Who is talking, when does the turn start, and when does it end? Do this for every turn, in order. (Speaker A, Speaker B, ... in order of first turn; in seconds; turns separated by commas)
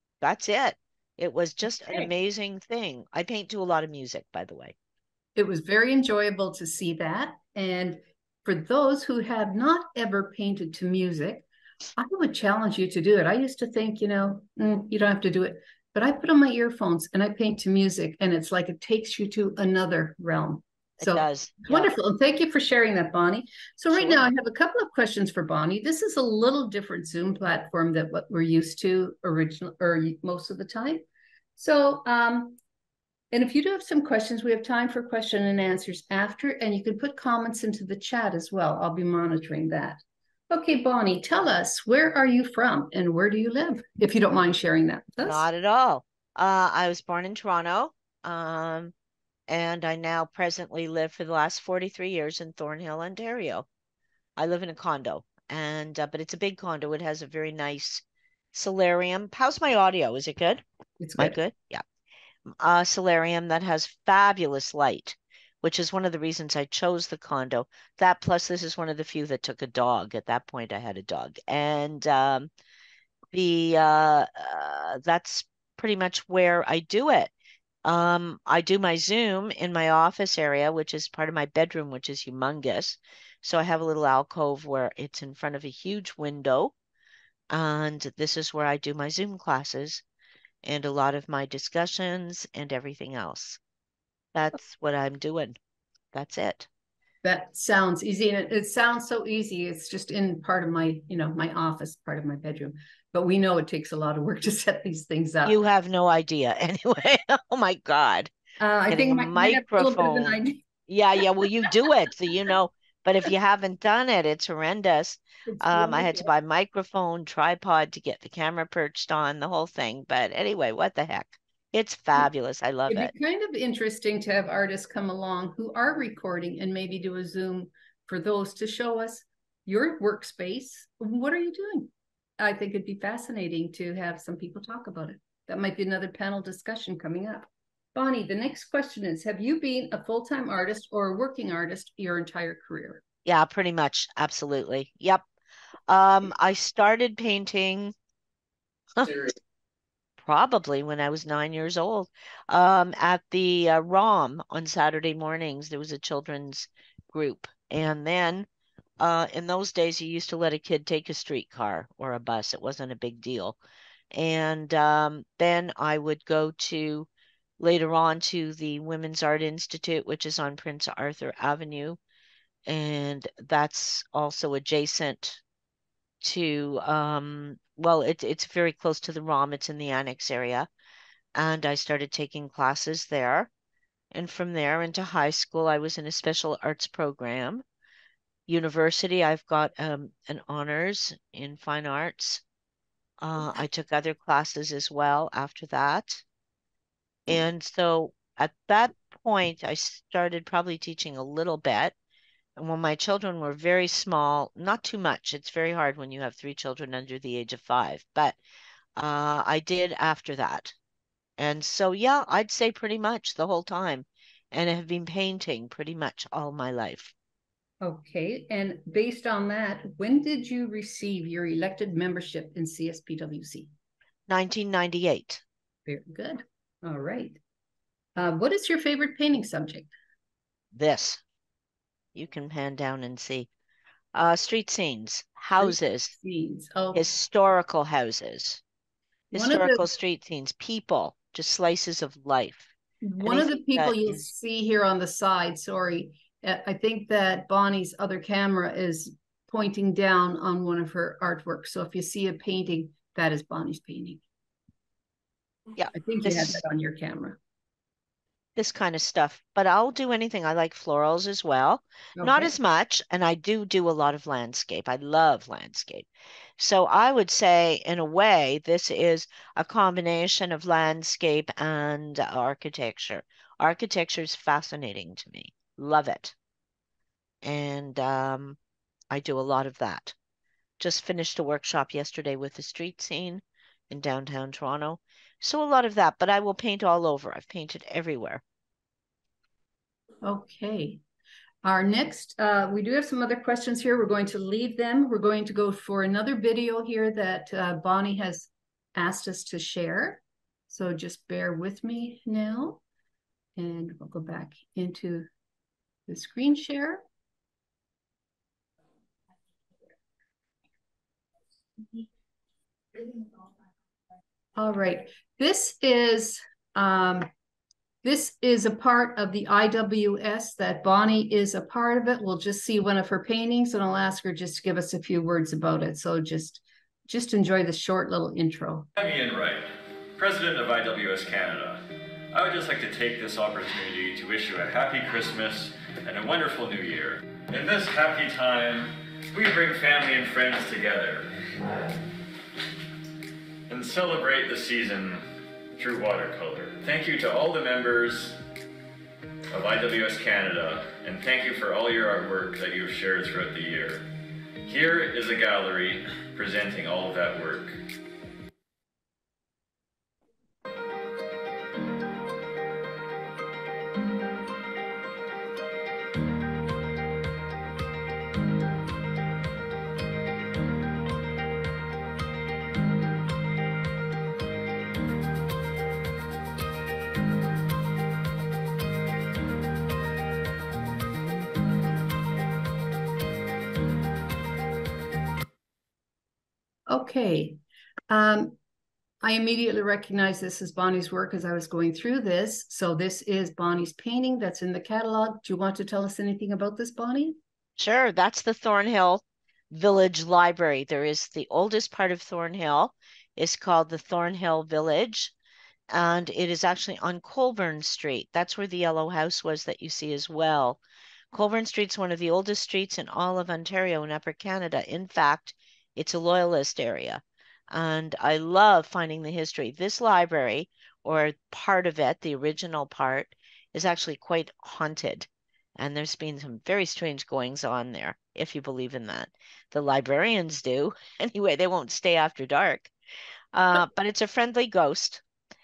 Speaker A: 0.2-4.7, Speaker B: 5.3-11.4, Speaker B: 12.0-31.0, Speaker A: 21.0-21.9, Speaker A: 23.9-24.3, Speaker B: 31.6-32.6, Speaker B: 33.3-45.5, Speaker A: 45.2-48.9, Speaker A: 49.5-53.6, Speaker A: 54.4-60.6, Speaker B: 61.0-61.4, Speaker A: 61.2-61.8, Speaker A: 62.5-72.5, Speaker A: 73.3-77.3, Speaker A: 77.8-86.7, Speaker A: 87.5-90.0, Speaker A: 90.6-93.6, Speaker A: 94.3-95.5, Speaker A: 96.1-96.7, Speaker B: 97.2-105.6, Speaker A: 105.4-108.3, Speaker B: 108.6-110.6, Speaker A: 108.9-123.1, Speaker B: 115.5-116.2, Speaker B: 122.9-143.0, Speaker A: 143.2-145.2, Speaker A: 145.9-147.9, Speaker A: 149.0-149.3, Speaker A: 150.2-158.5, Speaker A: 159.0-163.6, Speaker A: 164.1-167.1, Speaker A: 167.6-172.0, Speaker A: 172.7-175.4, Speaker A: 176.2-180.7, Speaker A: 181.3-183.5, Speaker A: 184.1-187.6, Speaker A: 188.5-192.4, Speaker A: 193.2-196.2, Speaker A: 197.3-201.9, Speaker A: 202.6-208.4, Speaker A: 209.0-210.7, Speaker A: 211.4-217.1, Speaker B: 217.8-223.7, Speaker A: 224.3-225.4, Speaker B: 225.9-227.4, Speaker B: 228.2-229.9, Speaker A: 230.7-231.2, Speaker A: 232.1-233.5, Speaker A: 234.1-236.1, Speaker B: 235.6-237.1, Speaker A: 236.9-238.6, Speaker A: 239.3-242.7, Speaker B: 239.3-239.8, Speaker B: 243.0-254.2, Speaker A: 243.2-244.1, Speaker A: 255.8-256.6, Speaker B: 255.9-257.4, Speaker A: 258.6-266.1, Speaker B: 262.2-262.5, Speaker A: 266.6-276.3, Speaker A: 277.4-278.6, Speaker A: 279.1-280.1, Speaker A: 280.8-288.4, Speaker B: 290.2-291.0, Speaker B: 291.6-302.8, Speaker B: 303.6-305.3, Speaker B: 306.1-307.0, Speaker B: 314.6-317.3, Speaker B: 318.0-328.9, Speaker C: 328.9-341.3, Speaker C: 343.7-345.2, Speaker C: 345.8-348.4, Speaker C: 349.5-354.0, Speaker C: 354.6-357.8, Speaker B: 386.9-387.6, Speaker B: 388.1-388.6, Speaker B: 389.2-397.4, Speaker A: 397.8-405.3, Speaker A: 405.9-410.8, Speaker A: 411.3-432.9, Speaker A: 433.5-435.2